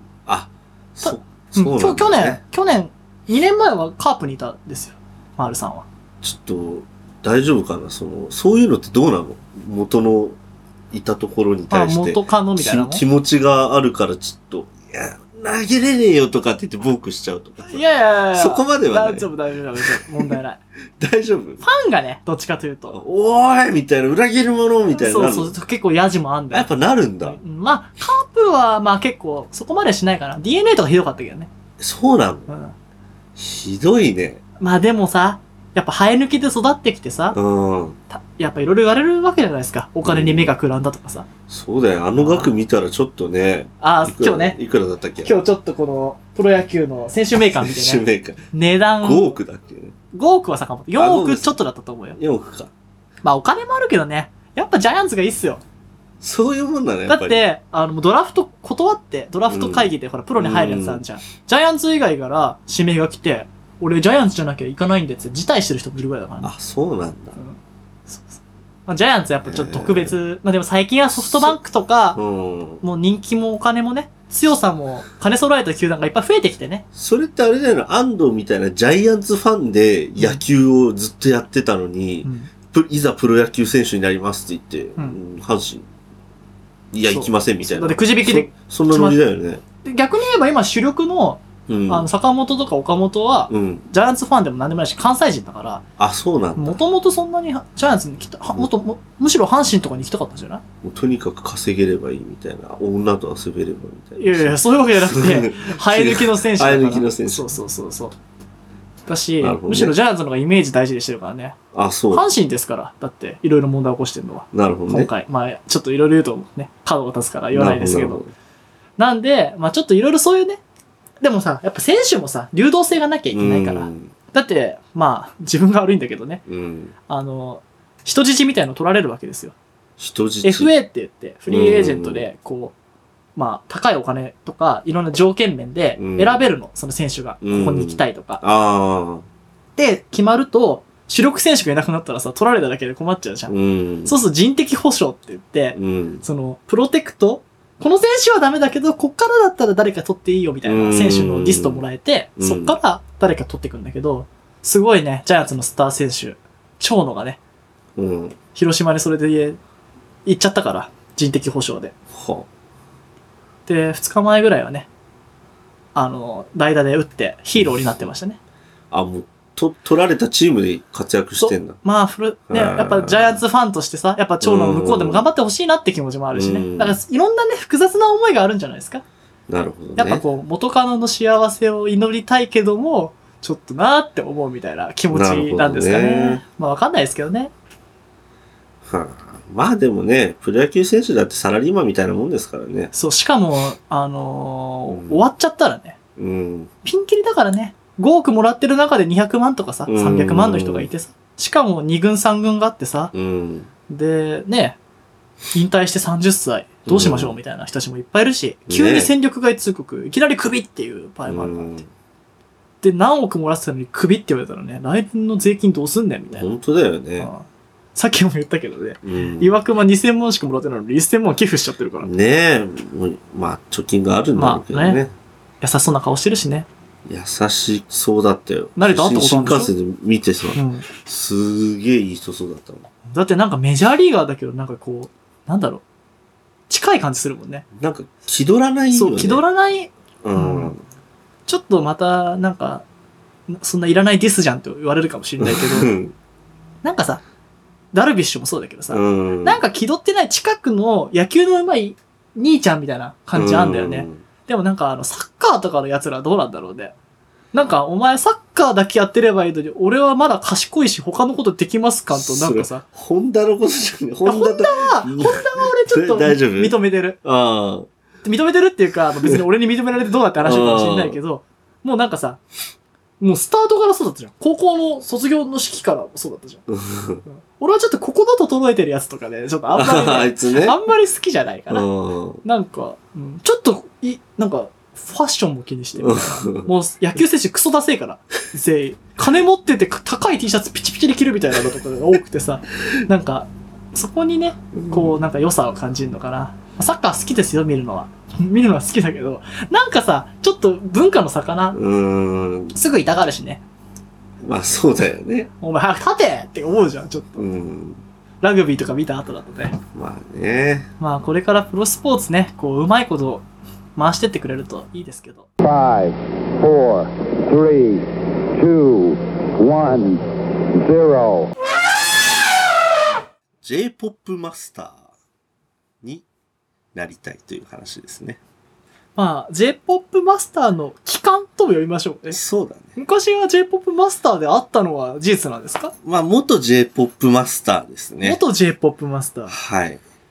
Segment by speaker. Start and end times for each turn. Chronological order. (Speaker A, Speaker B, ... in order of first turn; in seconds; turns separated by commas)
Speaker A: 0.2-2.4, Speaker B: 1.0-5.8, Speaker A: 6.2-10.4, Speaker A: 10.9-17.8, Speaker B: 11.7-13.0, Speaker B: 17.6-20.6, Speaker A: 18.3-20.4, Speaker A: 21.0-21.6, Speaker B: 21.6-23.0, Speaker A: 22.9-25.5, Speaker B: 24.9-26.7, Speaker A: 26.5-27.4, Speaker B: 27.2-31.5, Speaker A: 31.8-32.5, Speaker B: 32.5-32.7, Speaker A: 33.4-34.4, Speaker B: 34.6-37.4, Speaker A: 37.3-38.0, Speaker B: 38.1-41.3, Speaker A: 40.0-40.5, Speaker A: 41.5-45.4, Speaker B: 42.2-42.5, Speaker B: 43.8-44.6, Speaker B: 45.2-49.3, Speaker A: 47.4-48.4, Speaker A: 49.0-49.9, Speaker B: 50.1-52.2, Speaker A: 51.0-51.6, Speaker A: 52.1-52.7, Speaker B: 53.2-55.6, Speaker A: 56.2-57.4, Speaker B: 57.1-66.5, Speaker A: 59.5-61.0, Speaker A: 66.4-67.4, Speaker B: 67.4-72.2, Speaker A: 69.4-70.2, Speaker A: 71.2-71.6, Speaker A: 72.1-72.8, Speaker B: 72.8-76.8, Speaker A: 76.9-85.9, Speaker B: 82.2-82.5, Speaker A: 86.9-89.6, Speaker B: 87.1-89.2, Speaker B: 89.8-95.8, Speaker A: 91.7-92.1, Speaker A: 93.5-93.8, Speaker A: 96.0-96.8, Speaker B: 96.5-100.6, Speaker A: 100.8-107.5, Speaker B: 104.2-108.1, Speaker B: 109.0-111.6, Speaker A: 109.4-110.0, Speaker A: 111.7-112.3, Speaker B: 112.1-118.2, Speaker A: 114.5-115.1, Speaker A: 117.5-118.3, Speaker B: 119.0-120.6, Speaker B: 121.2-126.4, Speaker A: 123.3-124.1, Speaker A: 126.5-126.9, Speaker B: 127.1-129.5, Speaker A: 130.0-130.7, Speaker B: 130.4-132.7, Speaker A: 131.5-132.3, Speaker B: 133.3-138.4, Speaker A: 136.0-136.4, Speaker A: 137.4-139.2, Speaker B: 139.8-143.5, Speaker A: 143.5-144.1, Speaker B: 144.0-157.4, Speaker A: 145.7-146.2, Speaker A: 150.6-151.8, Speaker A: 152.4-152.8, Speaker A: 157.9-158.4, Speaker B: 158.5-159.6, Speaker B: 160.2-161.9, Speaker A: 162.1-162.5, Speaker B: 163.7-164.9, Speaker B: 165.9-168.4, Speaker A: 168.9-171.8, Speaker B: 171.4-179.0, Speaker A: 172.5-173.4, Speaker A: 174.4-175.2, Speaker A: 176.3-177.0, Speaker A: 179.5-180.2, Speaker B: 180.0-187.5, Speaker A: 185.1-186.4, Speaker A: 188.8-192.9, Speaker B: 192.9-196.0, Speaker A: 194.9-195.2, Speaker A: 196.2-196.7, Speaker B: 196.8-203.1, Speaker A: 199.9-200.9, Speaker A: 203.1-203.7, Speaker B: 203.9-204.8, Speaker B: 205.5-211.8, Speaker A: 206.8-207.4, Speaker A: 208.7-209.1, Speaker A: 211.3-211.9, Speaker B: 212.8-216.5, Speaker A: 216.3-217.3, Speaker B: 217.2-222.1, Speaker A: 219.0-219.6, Speaker A: 222.0-225.1, Speaker B: 224.3-225.0, Speaker B: 225.6-226.7, Speaker A: 227.1-232.9, Speaker B: 228.8-229.7, Speaker B: 230.5-230.9, Speaker B: 233.1-235.8, Speaker B: 236.7-237.7, Speaker A: 237.8-239.4, Speaker B: 238.9-240.7, Speaker A: 240.2-240.8, Speaker B: 241.5-242.8, Speaker B: 243.5-245.9, Speaker A: 245.4-246.1, Speaker B: 246.8-247.2, Speaker B: 247.9-256.9, Speaker A: 248.9-249.6, Speaker A: 253.3-254.2, Speaker B: 257.5-262.8, Speaker A: 262.1-267.9, Speaker B: 264.2-267.2, Speaker B: 268.2-272.4, Speaker A: 270.4-271.2, Speaker B: 273.2-276.6, Speaker A: 276.7-277.2, Speaker B: 277.2-281.9, Speaker A: 279.7-280.8, Speaker A: 281.7-282.4, Speaker B: 282.4-301.8, Speaker A: 286.0-286.7, Speaker A: 294.7-295.2, Speaker A: 301.7-302.7, Speaker B: 302.7-303.6, Speaker A: 304.4-305.5, Speaker B: 305.6-307.4, Speaker A: 307.4-308.0, Speaker B: 308.4-309.8, Speaker A: 309.9-310.9, Speaker B: 311.0-313.4, Speaker B: 313.9-315.5, Speaker C: 315.6-321.5, Speaker A: 323.6-325.0, Speaker A: 326.9-328.4, Speaker B: 329.1-332.4, Speaker A: 332.3-332.9, Speaker B: 332.9-335.9, Speaker A: 336.0-338.4, Speaker B: 338.2-339.6, Speaker A: 339.5-340.0